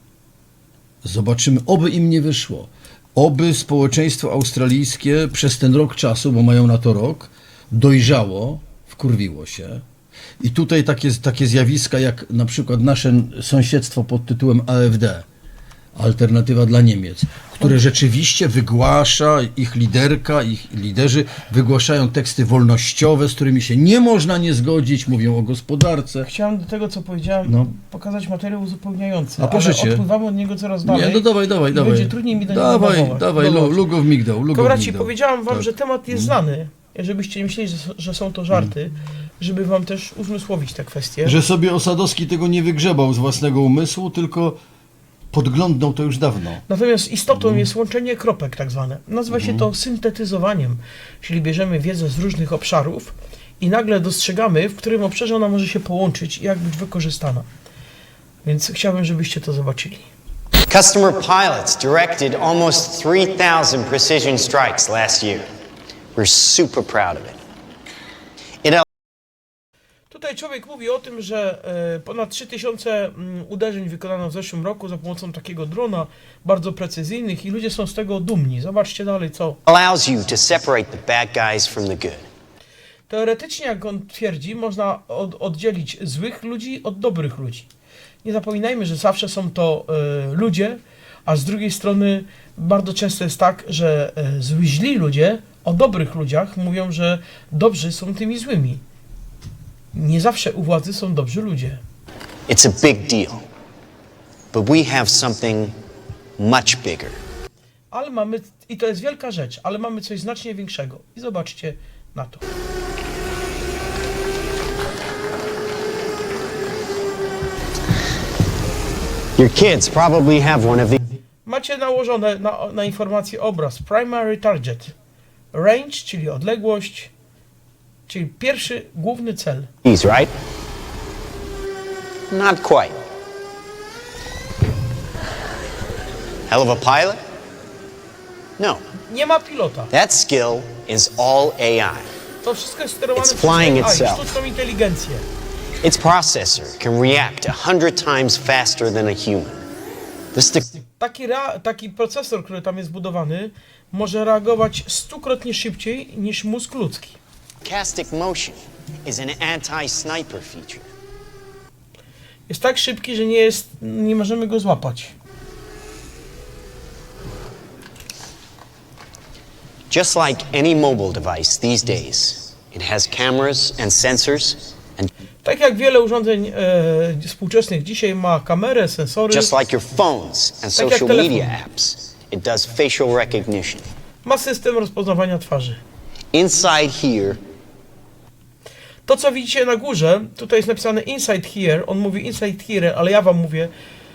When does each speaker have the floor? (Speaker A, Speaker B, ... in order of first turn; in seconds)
Speaker A: 1.0-9.8, 10.4-15.3, 16.0-26.3, 27.5-27.7, 29.4-30.1, 30.9-36.4, 41.2-44.6, 45.3-46.6, 47.4-47.7, 49.3-49.7
Speaker B: 26.2-33.9, 34.5-41.4, 46.7-57.5, 58.4-60.1, 70.1-79.6, 83.1-87.7, 88.2-98.8, 99.9-101.8, 107.9-112.4, 121.5-125.0, 125.5-127.1, 128.1-129.7, 139.1-139.9, 142.4-145.3, 150.9-157.2, 162.5-165.1, 175.4-179.5, 180.8-181.6, 184.2-185.8, 189.1-193.7
Speaker C: 60.7-65.5, 66.2-67.4, 79.7-82.3, 102.5-103.5, 104.5-105.7, 106.4-107.2, 119.4-121.0, 129.8-130.3, 132.3-133.0, 136.5-137.2, 139.9-142.1, 143.2-144.3, 145.8-149.7, 150.3-150.8, 157.6-160.9, 169.9-175.1, 179.3-183.9, 186.3-187.4